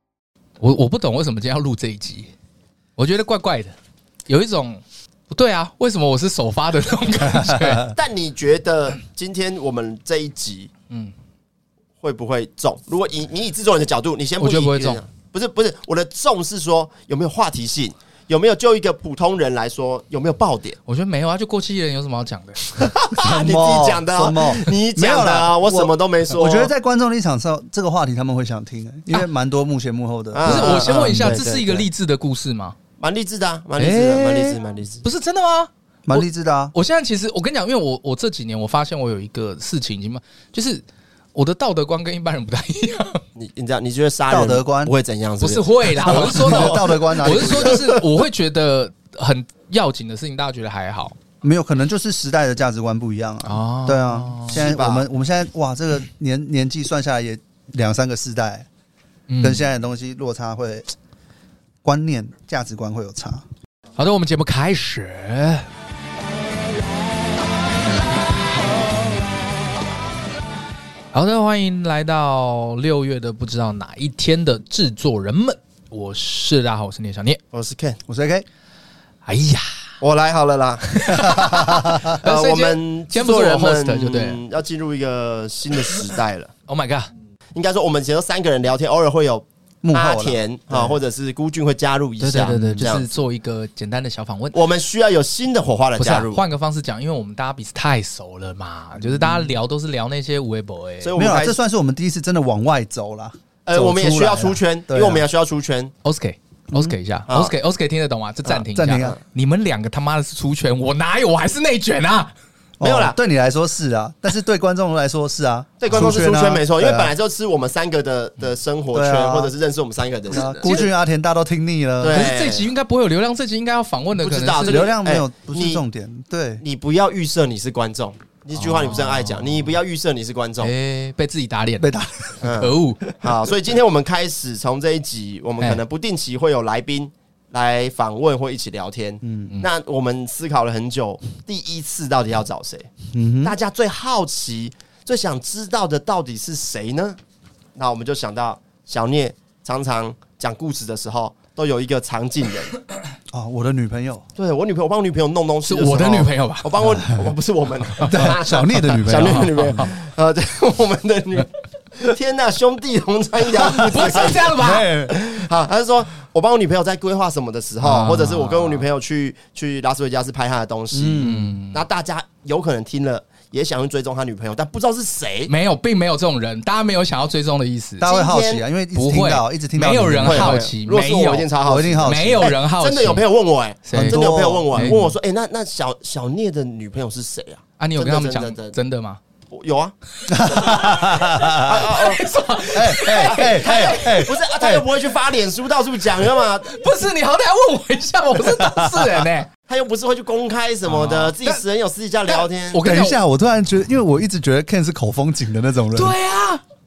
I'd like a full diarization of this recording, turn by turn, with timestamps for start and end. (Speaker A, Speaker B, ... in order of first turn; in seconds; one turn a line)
Speaker A: 0.6-2.3
Speaker A: 3.0-3.7
Speaker A: 4.3-7.9
Speaker B: 7.4-7.9
Speaker C: 7.9-10.7
Speaker C: 12.0-20.8
Speaker A: 14.4-15.0
Speaker A: 20.9-22.6
Speaker C: 22.8-26.7
Speaker B: 23.1-31.4
Speaker C: 30.3-31.9
Speaker A: 30.4-32.8
Speaker C: 33.0-35.0
Speaker A: 33.8-40.8
Speaker B: 36.0-36.7
Speaker A: 41.3-43.2
Speaker C: 43.4-48.0
Speaker B: 44.3-44.9
Speaker A: 45.4-51.1
Speaker B: 46.0-47.9
Speaker B: 51.4-58.7
Speaker A: 53.4-54.5
Speaker C: 54.5-55.0
Speaker A: 59.3-59.7
Speaker B: 59.4-60.9
Speaker B: 61.8-63.4
Speaker A: 64.0-65.7
Speaker A: 71.1-77.4
Speaker C: 77.5-78.0
Speaker B: 78.1-78.5
Speaker A: 79.2-79.7
Speaker C: 80.0-81.6
Speaker A: 81.0-84.4
Speaker B: 81.5-82.1
Speaker C: 82.2-86.5
Speaker A: 86.7-87.1
Speaker C: 87.5-93.0
Speaker B: 89.8-90.9
Speaker A: 92.2-94.7
Speaker C: 94.5-96.4
Speaker A: 96.0-101.1
Speaker C: 101.0-101.6
Speaker B: 101.1-105.2
Speaker C: 103.7-105.9
Speaker A: 106.0-112.3
Speaker C: 107.3-107.5
Speaker B: 108.5-109.2
Speaker B: 112.8-117.1
Speaker C: 112.8-113.2
Speaker C: 115.8-120.9
Speaker B: 118.9-119.5
Speaker B: 120.3-122.3
Speaker C: 122.0-122.7
Speaker A: 122.1-124.9
Speaker C: 124.2-125.8
Speaker B: 124.6-126.6
Speaker C: 126.6-130.7
Speaker A: 128.5-129.7
Speaker A: 130.6-133.1
Speaker B: 131.8-132.5
Speaker C: 132.4-142.9
Speaker B: 139.2-139.5
Speaker B: 143.1-143.6
Speaker C: 143.4-147.2
Speaker C: 147.7-152.8
Speaker B: 153.3-154.2
Speaker C: 154.4-164.6
Speaker A: 155.7-156.7
Speaker A: 157.9-158.2
Speaker B: 158.1-159.9
Speaker A: 159.2-159.9
Speaker A: 163.7-164.9
Speaker B: 163.8-165.4
Speaker C: 165.1-175.5
Speaker A: 167.8-168.8
Speaker B: 170.9-171.6
Speaker A: 171.2-171.8
Speaker A: 175.5-178.1
Speaker B: 178.0-180.6
Speaker C: 178.0-178.6
Speaker A: 178.9-181.5
Speaker C: 180.1-188.8
Speaker B: 181.6-182.5
Speaker A: 182.0-183.2
Speaker A: 183.8-185.1
Speaker B: 183.9-185.1
Speaker A: 187.8-189.2
Speaker C: 189.5-189.9
Speaker B: 190.3-191.9
Speaker A: 190.5-194.3
Speaker C: 191.6-192.2
Speaker B: 192.7-194.8
Speaker C: 193.2-196.7
Speaker A: 196.6-199.5
Speaker B: 198.4-199.3
Speaker C: 199.7-202.8
Speaker A: 200.8-201.6
Speaker A: 202.3-203.2
Speaker B: 202.8-206.1
Speaker A: 205.9-206.6